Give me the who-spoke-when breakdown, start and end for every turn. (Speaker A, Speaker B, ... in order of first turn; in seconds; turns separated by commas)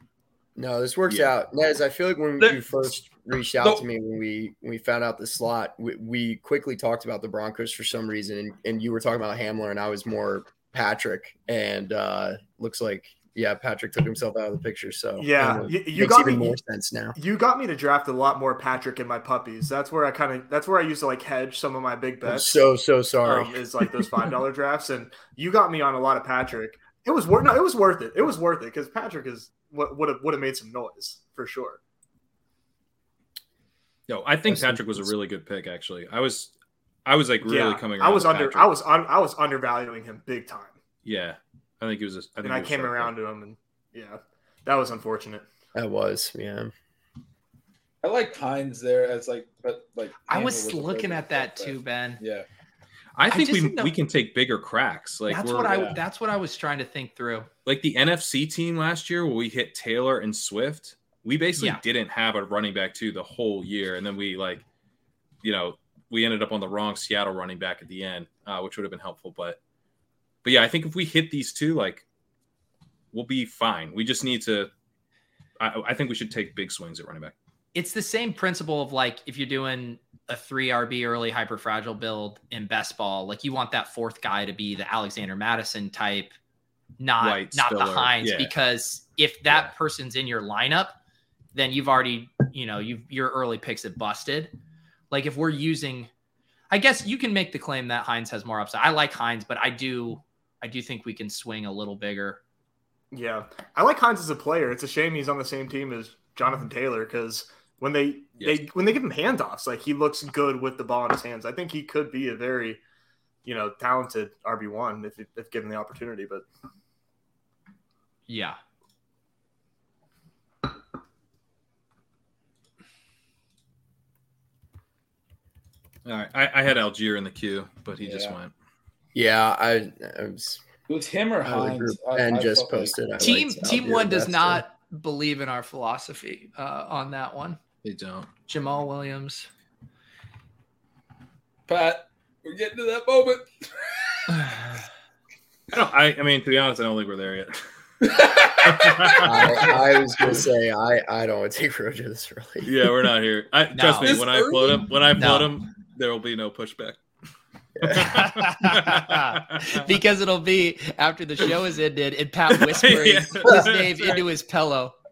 Speaker A: 0.6-17.1, Speaker B: 15.2-16.5, Speaker B: 17.1-22.6, Speaker A: 22.2-23.9, Speaker B: 23.2-31.8, Speaker C: 34.1-36.5, Speaker A: 34.5-35.1, Speaker C: 37.0-38.7, Speaker B: 37.4-40.7, Speaker C: 41.0-43.1, Speaker B: 42.4-45.4, Speaker A: 45.7-46.7, Speaker D: 48.0-52.5, Speaker E: 50.3-52.2, Speaker C: 53.1-55.8, Speaker E: 53.3-53.9, Speaker E: 55.3-57.5, Speaker D: 55.7-56.0, Speaker C: 57.6-64.6, Speaker C: 65.4-69.6, Speaker C: 70.4-72.0, Speaker C: 73.1-74.7, Speaker C: 75.6-77.3, Speaker E: 77.7-86.3, Speaker E: 87.0-91.0, Speaker C: 87.2-88.5, Speaker E: 91.5-94.5, Speaker E: 95.1-96.1, Speaker E: 96.7-102.4, Speaker B: 103.1-112.8, Speaker B: 113.4-116.4, Speaker E: 118.3-118.6, Speaker C: 126.0-128.5, Speaker D: 128.0-128.4, Speaker A: 129.1-130.6, Speaker D: 130.9-133.0, Speaker A: 131.4-134.6, Speaker E: 133.2-137.6, Speaker C: 137.8-138.3, Speaker E: 138.5-139.5, Speaker D: 141.7-144.4, Speaker C: 145.7-147.6, Speaker D: 148.0-149.7, Speaker C: 148.6-149.8, Speaker A: 149.2-152.7, Speaker C: 152.6-157.0, Speaker E: 153.7-154.2, Speaker D: 154.0-154.9, Speaker E: 155.2-155.5, Speaker A: 157.8-158.1, Speaker C: 157.9-159.8, Speaker E: 157.9-164.9, Speaker C: 162.5-164.2